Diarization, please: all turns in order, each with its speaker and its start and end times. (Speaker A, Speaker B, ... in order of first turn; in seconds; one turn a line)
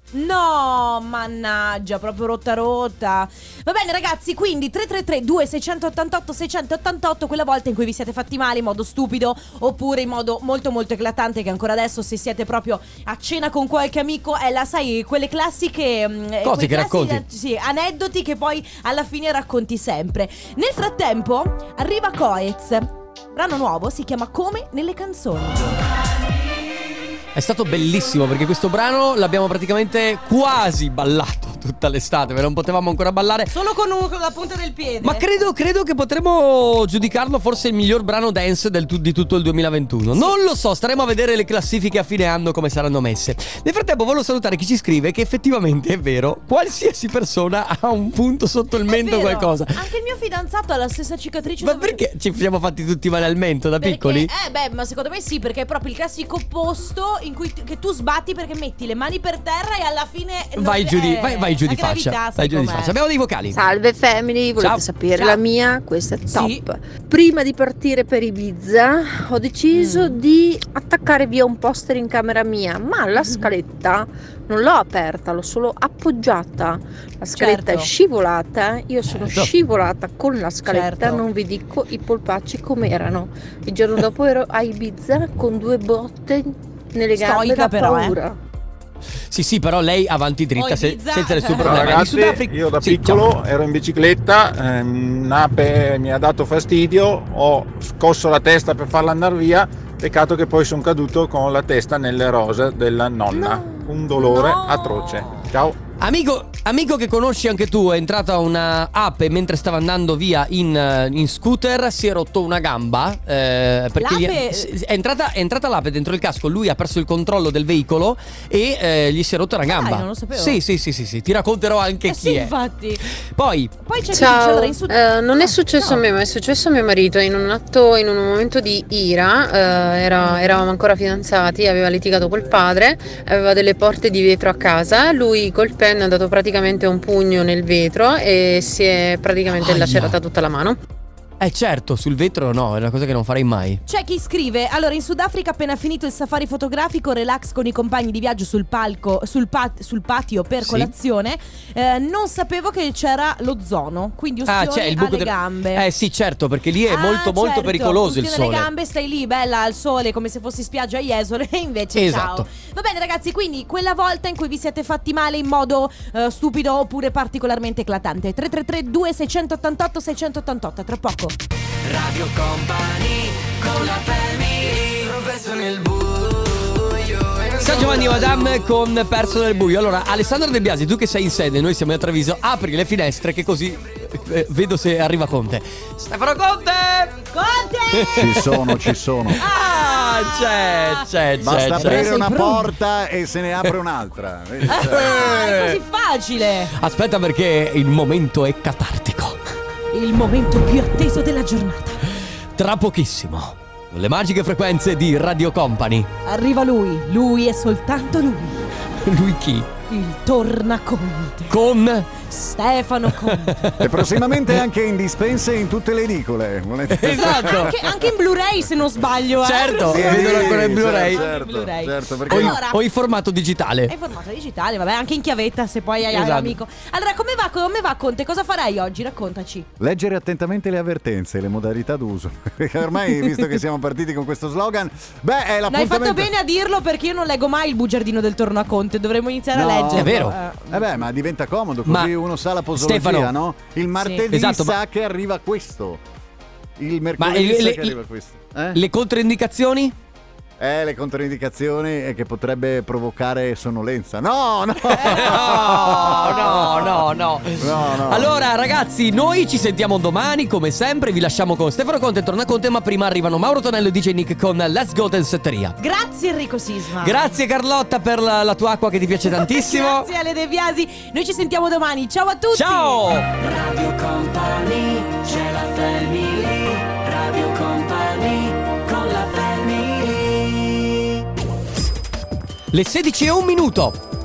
Speaker A: 0.1-25.7
Speaker B: 16.4-17.2
Speaker B: 27.4-33.5
Speaker A: 33.5-35.2
Speaker B: 35.0-49.8
Speaker A: 48.9-52.0
Speaker B: 51.6-54.3
Speaker A: 53.8-63.0
Speaker B: 60.6-63.6
Speaker C: 63.5-88.4
Speaker B: 64.6-64.9
Speaker A: 65.2-65.4
Speaker A: 66.3-66.6
Speaker A: 69.7-70.2
Speaker A: 73.2-73.5
Speaker A: 77.3-77.9
Speaker B: 79.1-79.5
Speaker A: 80.7-81.2
Speaker A: 87.2-88.2
Speaker B: 89.3-93.3
Speaker A: 90.6-92.0
Speaker D: 91.6-105.8
Speaker A: 103.3-105.3
Speaker B: 106.0-122.5
Speaker A: 114.0-114.7
Speaker A: 119.7-120.6
Speaker A: 122.1-123.0
Speaker B: 123.3-123.7
Speaker A: 123.8-126.1
Speaker E: 124.1-140.8
Speaker A: 130.2-130.6
Speaker B: 139.5-140.2
Speaker B: 141.4-143.8
Speaker A: 143.9-155.9
Speaker B: 150.6-150.9
Speaker B: 154.5-158.7
Speaker A: 156.9-171.4
Speaker B: 161.9-162.5
Speaker F: 171.8-178.3
Speaker B: 177.6-187.2
Speaker A: 187.3-188.7
Speaker B: 187.9-192.2
Speaker G: 188.1-189.4
Speaker A: 189.3-192.7
Speaker G: 191.4-195.1
Speaker A: 194.7-196.7
Speaker B: 194.7-195.8
Speaker B: 196.7-199.4
Speaker A: 199.9-202.1
Speaker B: 202.6-206.1
Speaker A: 206.3-208.7
Speaker B: 209.0-209.7
Speaker A: 209.9-211.6
Speaker B: 211.5-212.1
Speaker A: 212.2-213.8
Speaker B: 213.1-214.6
Speaker G: 213.8-217.8
Speaker B: 216.9-217.8
Speaker A: 217.1-222.8
Speaker B: 219.4-221.3
Speaker G: 219.9-222.6
Speaker B: 222.3-223.9
Speaker A: 223.9-229.7
Speaker B: 226.1-226.6
Speaker G: 229.8-236.3
Speaker A: 235.7-241.0
Speaker G: 239.5-246.0
Speaker B: 239.9-240.4
Speaker B: 241.8-242.2
Speaker B: 242.7-243.3
Speaker A: 244.0-244.3
Speaker B: 244.3-244.8
Speaker G: 246.8-248.8
Speaker B: 247.2-248.0
Speaker B: 248.7-249.9
Speaker G: 250.6-256.8
Speaker B: 254.8-265.8
Speaker A: 254.9-257.0
Speaker G: 257.5-258.4
Speaker A: 265.8-267.3
Speaker B: 267.0-270.1
Speaker A: 269.2-273.1
Speaker B: 272.5-273.3
Speaker F: 273.3-281.1
Speaker B: 282.7-284.0